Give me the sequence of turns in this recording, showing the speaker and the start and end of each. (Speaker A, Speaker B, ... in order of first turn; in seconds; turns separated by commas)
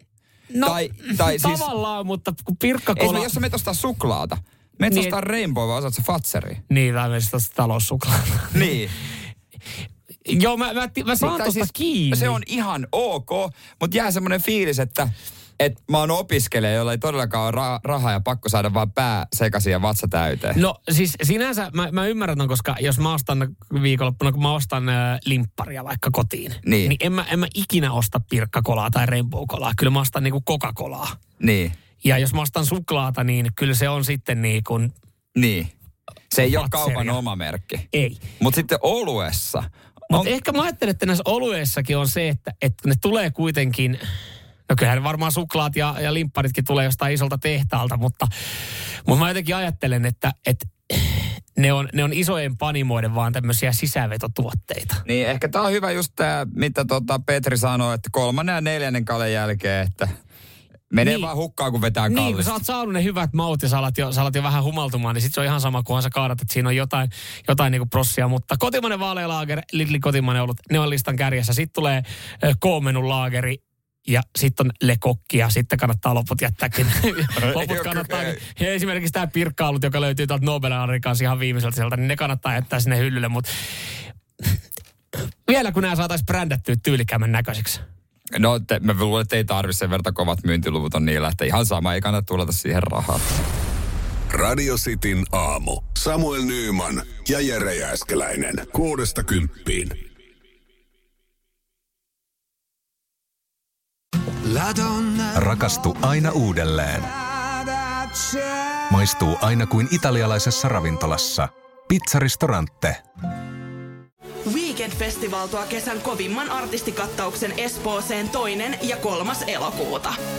Speaker A: 0.5-3.3, Speaker B: 0.6-1.7, Speaker B: 2.9-6.6, Speaker A: 4.9-5.2, Speaker A: 6.7-8.8, Speaker B: 8.5-8.9, Speaker A: 10.2-12.4, Speaker B: 11.2-20.6, Speaker A: 20.5-31.1, Speaker B: 26.6-26.9, Speaker B: 31.4-31.7, Speaker A: 32.0-34.9, Speaker B: 35.3-35.7, Speaker B: 36.3-37.8, Speaker A: 36.4-37.2, Speaker A: 37.9-38.2, Speaker B: 38.4-40.3, Speaker A: 40.1-44.0, Speaker A: 44.7-48.3, Speaker A: 49.0-55.0, Speaker B: 55.0-60.1, Speaker B: 60.9-62.6, Speaker A: 61.0-61.3, Speaker A: 62.1-83.5, Speaker B: 77.3-78.4, Speaker A: 85.5-87.8, Speaker B: 88.3-93.2, Speaker C: 94.3-100.0, Speaker D: 105.3-107.1, Speaker D: 108.9-113.0, Speaker E: 114.5-120.1